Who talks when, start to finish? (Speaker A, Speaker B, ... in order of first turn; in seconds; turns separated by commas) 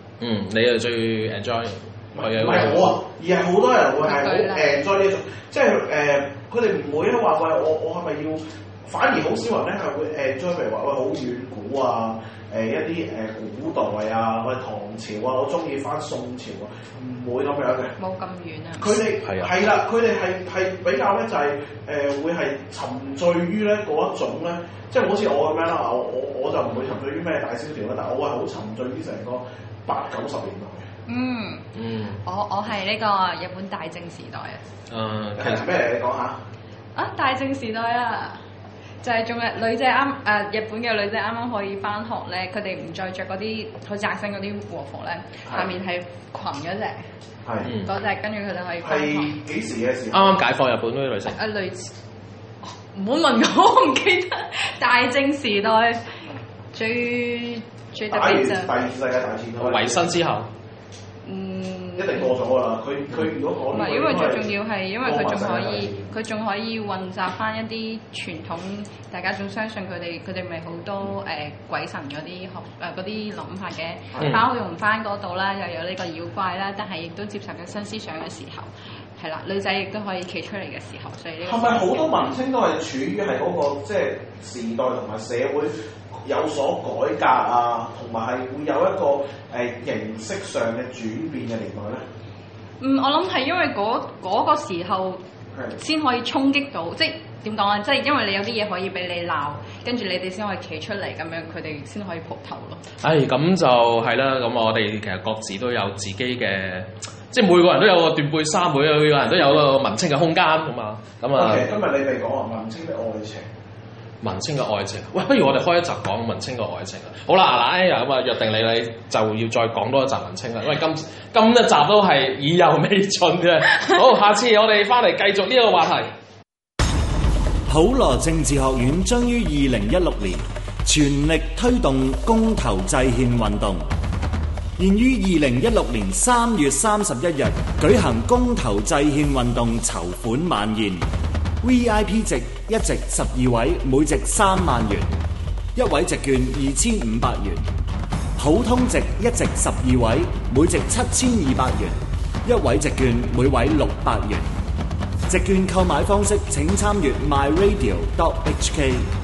Speaker A: 0.2-3.0, Speaker B: 2.1-17.9, Speaker C: 4.0-4.8, Speaker C: 18.0-19.0, Speaker B: 18.8-30.9, Speaker A: 19.2-19.5, Speaker C: 31.1-31.7, Speaker A: 31.7-32.2, Speaker C: 32.2-34.6, Speaker A: 34.9-35.7, Speaker B: 35.4-36.4, Speaker C: 37.0-38.4, Speaker C: 39.0-47.1, Speaker B: 47.5-47.7, Speaker A: 47.6-47.9, Speaker C: 47.8-49.4, Speaker B: 48.8-50.4, Speaker A: 50.1-51.4, Speaker C: 51.4-51.9, Speaker C: 52.6-56.0, Speaker C: 56.7-58.7, Speaker B: 58.0-60.1, Speaker A: 59.6-60.5, Speaker C: 61.2-62.3, Speaker B: 62.0-66.0, Speaker C: 63.7-82.3, Speaker A: 74.2-74.5, Speaker B: 81.4-92.0, Speaker C: 92.8-95.2, Speaker C: 95.8-102.8, Speaker A: 103.0-111.7, Speaker B: 111.4-113.5, Speaker A: 114.2-126.1, Speaker D: 127.7-133.9, Speaker D: 134.8-141.1, Speaker D: 141.6-145.2, Speaker D: 145.7-147.6, Speaker D: 148.4-154.5, Speaker D: 155.3-159.1